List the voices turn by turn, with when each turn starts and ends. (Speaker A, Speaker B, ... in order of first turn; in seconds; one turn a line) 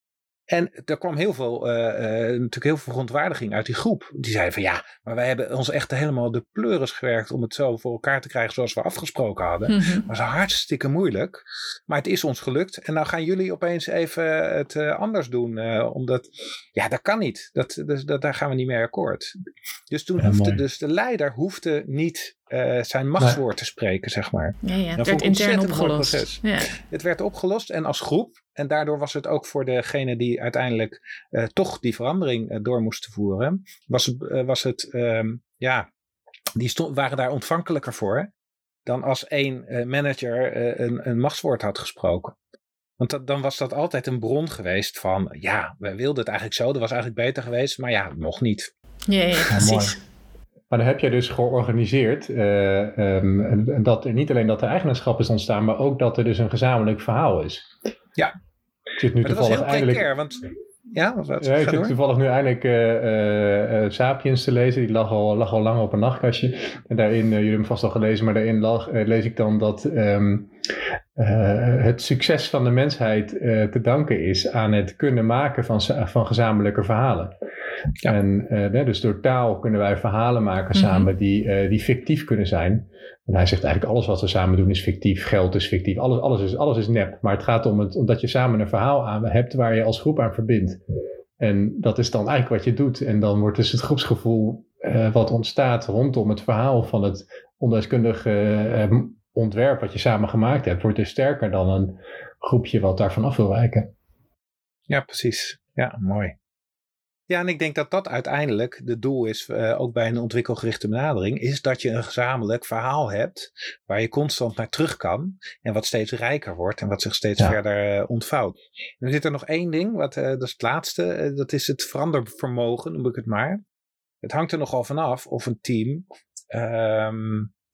Speaker A: 0.5-19.3
Speaker B: 9.7-10.1
Speaker A: 19.9-35.9
Speaker C: 20.2-20.6
Speaker B: 24.6-26.7
Speaker A: 36.6-38.3
Speaker A: 38.9-42.4
Speaker A: 43.0-48.7
Speaker B: 49.1-50.0
Speaker C: 49.5-49.9
Speaker C: 50.7-57.7
Speaker C: 59.0-60.0
Speaker A: 59.2-62.0
Speaker C: 61.4-70.5
Speaker C: 71.2-77.3
Speaker C: 78.1-90.8
Speaker B: 80.7-81.1
Speaker C: 91.4-103.9
Speaker A: 104.9-106.3
Speaker A: 107.3-123.6
Speaker A: 124.2-127.5